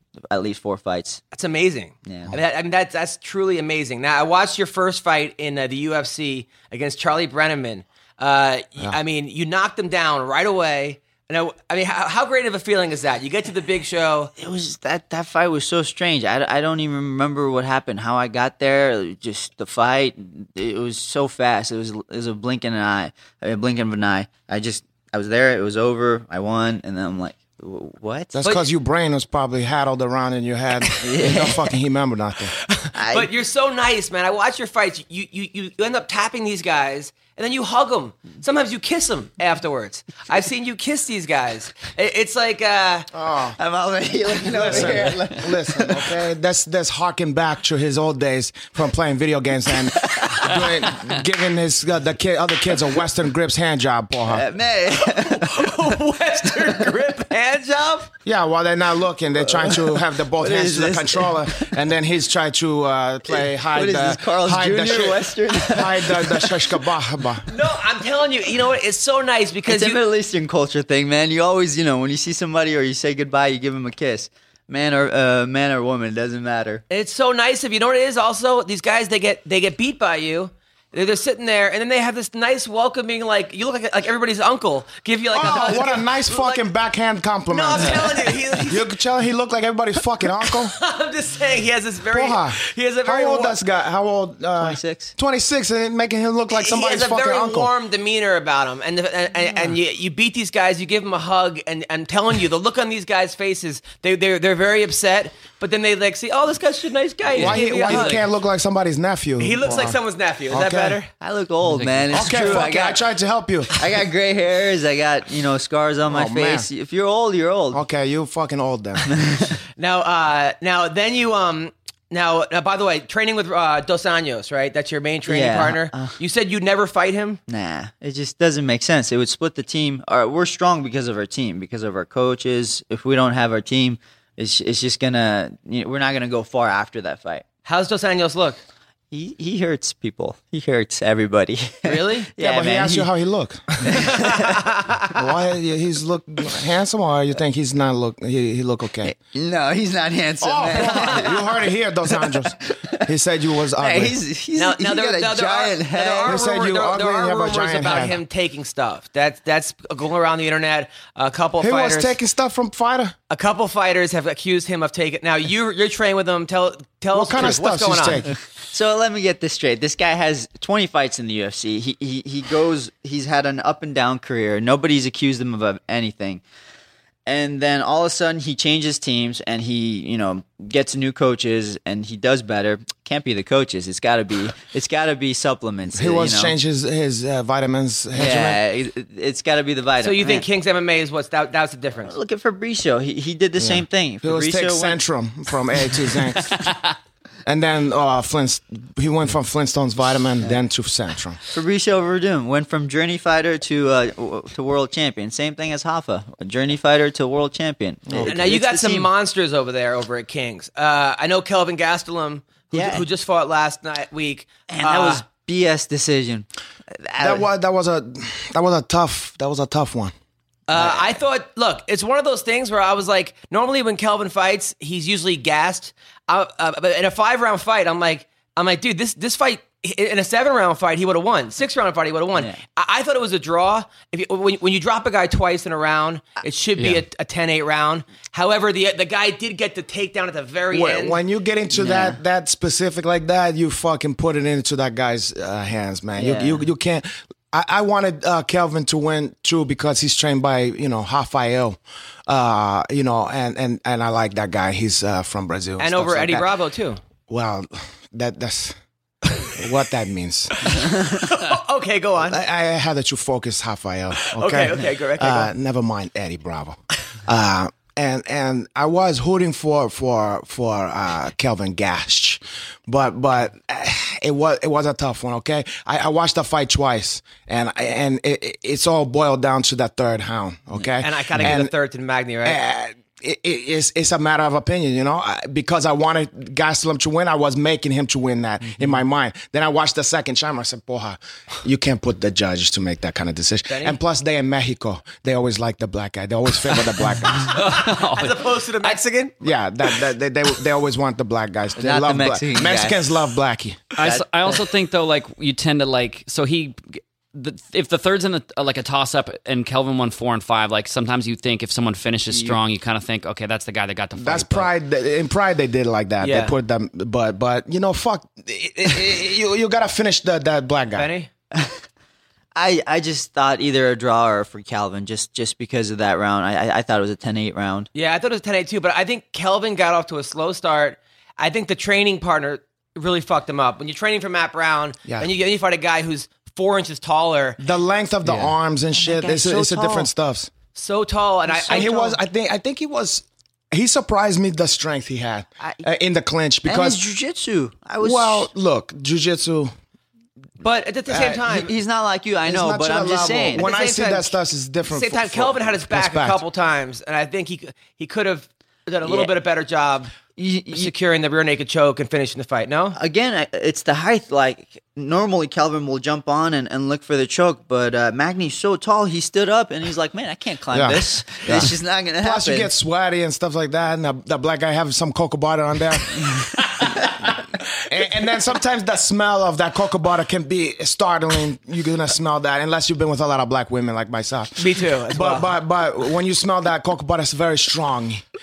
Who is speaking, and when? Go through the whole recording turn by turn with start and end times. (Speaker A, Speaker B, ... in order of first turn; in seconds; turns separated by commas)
Speaker A: 0.3-1.2, Speaker B: 1.3-14.3, Speaker A: 2.0-2.3, Speaker A: 14.4-28.4, Speaker C: 28.3-32.6, Speaker A: 31.0-31.6, Speaker B: 32.8-43.1, Speaker A: 32.9-33.3, Speaker C: 43.1-43.6, Speaker A: 43.6-46.2, Speaker C: 44.5-54.5, Speaker A: 50.0-50.9, Speaker A: 54.3-55.8, Speaker B: 55.0-58.1, Speaker A: 56.6-56.9, Speaker C: 58.2-67.5, Speaker A: 59.4-61.7, Speaker A: 63.3-66.8, Speaker B: 67.5-70.0, Speaker A: 69.7-76.8, Speaker B: 76.9-86.7, Speaker C: 85.3-90.8, Speaker B: 87.5-88.9, Speaker B: 90.5-93.6, Speaker C: 92.1-97.7, Speaker A: 94.6-95.1, Speaker B: 96.5-108.2, Speaker A: 99.5-99.8, Speaker D: 107.3-108.2, Speaker C: 107.3-110.0, Speaker B: 109.4-111.1, Speaker C: 110.5-111.0, Speaker A: 111.2-113.0, Speaker D: 111.6-112.7, Speaker C: 112.1-113.8, Speaker A: 113.7-117.8, Speaker C: 116.1-116.7, Speaker C: 117.7-119.1, Speaker A: 119.1-119.6, Speaker B: 119.8-127.4, Speaker A: 125.3-126.2, Speaker A: 127.5-137.4, Speaker B: 137.7-138.6, Speaker A: 139.1-143.1, Speaker B: 141.8-142.3, Speaker C: 142.4-144.1, Speaker A: 143.8-144.7, Speaker C: 145.1-149.1, Speaker A: 149.0-153.0, Speaker C: 150.4-154.2, Speaker B: 150.8-151.3, Speaker A: 153.8-156.4, Speaker B: 154.5-162.2, Speaker C: 156.2-158.2, Speaker C: 161.6-163.1, Speaker B: 163.3-168.2, Speaker C: 167.1-168.3, Speaker A: 168.6-176.4, Speaker A: 177.2-186.6, Speaker C: 185.9-188.6, Speaker A: 188.1-190.5, Speaker B: 190.0-192.1, Speaker A: 192.0-195.0, Speaker C: 193.6-196.7, Speaker C: 197.4-201.4, Speaker A: 201.5-209.1, Speaker C: 208.1-208.5, Speaker B: 208.2-215.2, Speaker A: 212.7-213.1, Speaker A: 214.7-217.5, Speaker C: 217.2-220.1, Speaker B: 220.7-241.2, Speaker A: 232.3-232.6, Speaker C: 240.7-256.5, Speaker A: 241.7-242.2, Speaker A: 246.2-246.7, Speaker B: 255.8-257.0, Speaker C: 257.3-258.8, Speaker C: 259.4-260.9, Speaker B: 260.7-262.4, Speaker C: 262.2-281.7, Speaker B: 264.3-265.5, Speaker B: 281.0-282.6, Speaker C: 282.4-297.6, Speaker B: 293.7-294.0, Speaker D: 297.4-298.4, Speaker B: 297.5-299.3, Speaker C: 299.4-303.9, Speaker A: 301.8-303.2, Speaker D: 304.0-314.7, Speaker A: 304.0-304.6, Speaker A: 312.3-312.6, Speaker C: 314.1-321.1, Speaker B: 316.2-316.5, Speaker B: 320.9-321.3, Speaker A: 322.5-327.9, Speaker B: 327.9-337.6, Speaker C: 337.6-340.5, Speaker D: 338.3-338.5, Speaker A: 338.9-340.1, Speaker B: 340.7-342.2, Speaker C: 341.6-347.0, Speaker A: 346.6-348.5, Speaker C: 348.0-349.7, Speaker B: 350.6-351.7, Speaker C: 351.1-351.4, Speaker A: 351.4-353.6, Speaker C: 352.4-356.4, Speaker B: 353.5-360.1, Speaker A: 359.0-359.3, Speaker A: 360.4-360.9, Speaker B: 360.7-363.0, Speaker A: 362.9-372.7, Speaker C: 370.7-388.2, Speaker B: 384.6-385.5